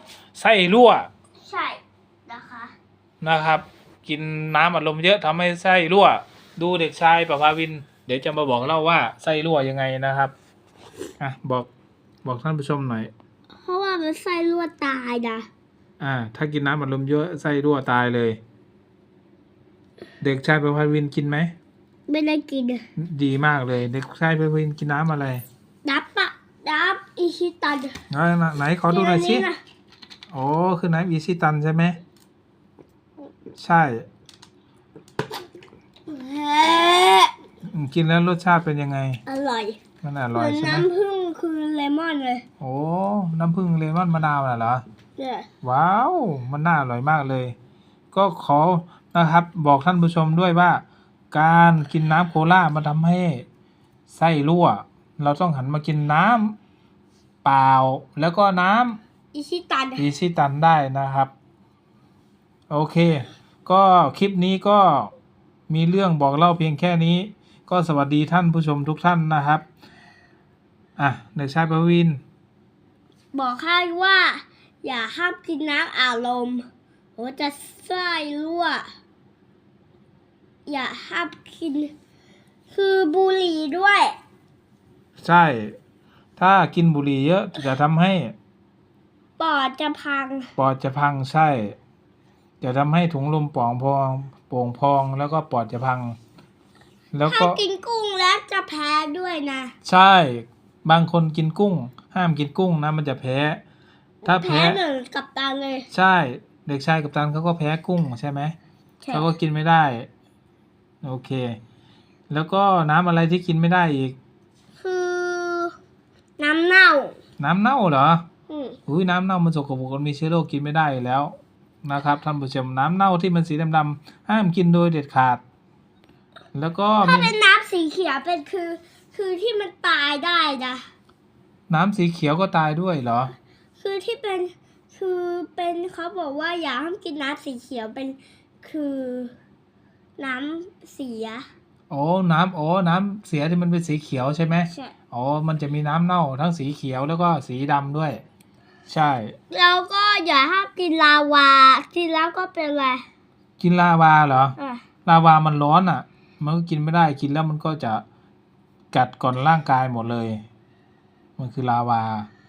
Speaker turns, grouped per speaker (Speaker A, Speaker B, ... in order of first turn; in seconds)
Speaker A: 0.4-1.1, 3.2-10.3, 11.2-11.7, 12.2-13.1, 16.0-18.4, 20.2-21.5, 23.0-25.4, 28.1-29.5, 30.3-32.0, 33.6-34.1, 37.6-39.2, 40.0-40.9, 42.6-44.8, 45.6-47.5, 48.1-53.5, 54.1-56.6, 57.4-59.0, 60.0-61.3, 62.7-65.1, 65.7-69.7, 71.0-72.2, 85.2-85.8, 86.4-88.3, 90.6-91.8, 92.6-96.2, 97.1-97.6, 99.8-103.6, 104.2-104.8, 105.9-108.5, 109.1-110.1, 111.0-111.6, 112.3-114.2, 117.4-118.2, 118.9-125.4, 126.5-127.3, 131.7-133.3, 141.9-148.2, 148.9-149.3, 153.6-158.0, 158.9-160.4, 161.4-162.3
Speaker B: 1.4-2.8, 13.6-15.5, 22.1-22.9, 25.9-27.9, 28.9-29.6, 36.1-37.3, 39.3-39.8, 40.3-42.5, 45.2-45.5, 59.3-60.1, 73.3-76.7, 77.2-78.9, 80.7-81.9, 82.7-84.2, 89.4-90.5, 97.3-99.7, 104.2-105.9, 109.0-109.3, 114.8-115.8, 116.4-117.2, 118.5-118.8, 127.0-130.9, 133.8-139.3, 140.2-141.5, 149.5-153.1, 154.6-154.8